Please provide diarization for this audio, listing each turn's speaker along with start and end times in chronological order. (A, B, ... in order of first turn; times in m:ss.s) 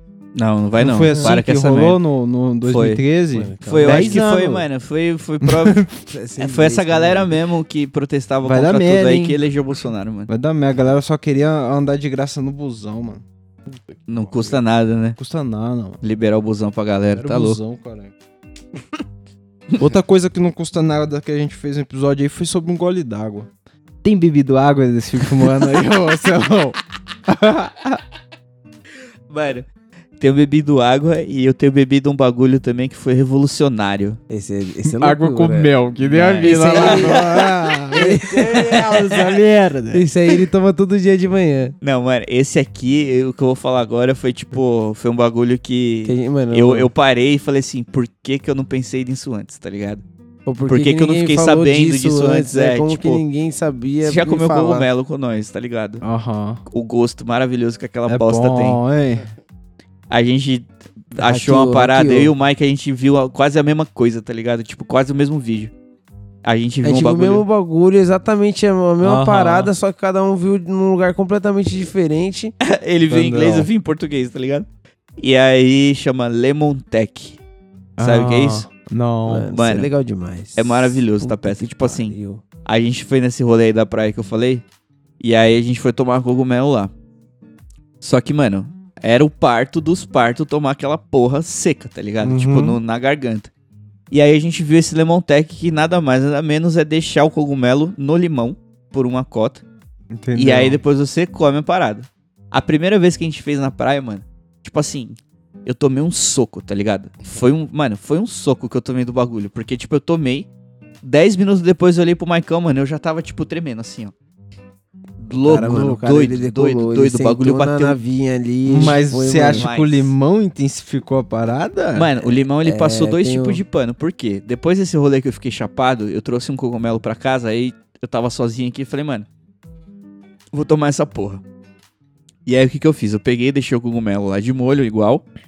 0:00.4-0:02.0 A
0:00.8-0:04.7 B
0:01.1-0:01.4 C
0:02.7-0:03.0 A
0:03.3-0:04.3 C
0:03.6-0:10.3 A
0:05.4-0:05.9 B
0:06.1-0:07.4 C
0:08.4-0:09.4 B
0:10.3-0:13.2 B
0:13.9-0:14.5 B
0:14.1-0:15.2 A
0:15.2-0:16.0 B
0:16.0-0:17.6 A
0:17.2-0:18.1 B
0:19.8-0:23.5 B
0:24.0-0:28.0 B
0:29.3-0:29.7 A
0:30.2-0:34.2 A
0:34.3-0:35.7 C
0:34.8-0:40.1 B
0:36.0-0:37.4 A
0:36.4-0:39.1 C
0:38.4-0:39.0 A
0:39.9-0:41.7 C
0:41.8-0:50.0 A
0:46.0-0:46.9 C
0:50.5-0:54.9 C
0:50.7-0:53.2 A
0:54.0-0:56.0 A
0:56.0-0:56.6 B
0:56.7-0:58.8 A
0:58.1-0:59.3 B
1:00.1-1:05.7 A
1:01.2-1:02.3 C
1:06.4-1:07.4 A
1:06.8-1:12.5 C
1:09.0-1:09.7 B
1:12.6-1:14.7 A
1:13.1-1:13.7 B
1:15.2-1:17.4 A
1:18.0-1:19.5 B
1:18.0-1:18.7 A
1:19.3-1:22.4 C
1:19.5-1:19.9 A
1:20.6-1:24.6 A
1:25.2-1:26.9 A
1:28.0-1:33.5 A
1:32.2-1:32.8 B
1:34.1-1:39.6 A
1:40.1-1:40.8 B
1:40.4-1:50.5 A
1:51.0-1:54.1 A
1:55.2-1:58.0 A
1:55.3-1:59.7 C
1:58.7-2:02.1 B
1:59.5-2:00.1 A
2:02.0-2:09.3 A
2:02.2-2:03.6 C
2:10.5-2:11.4 A
2:12.5-2:15.2 A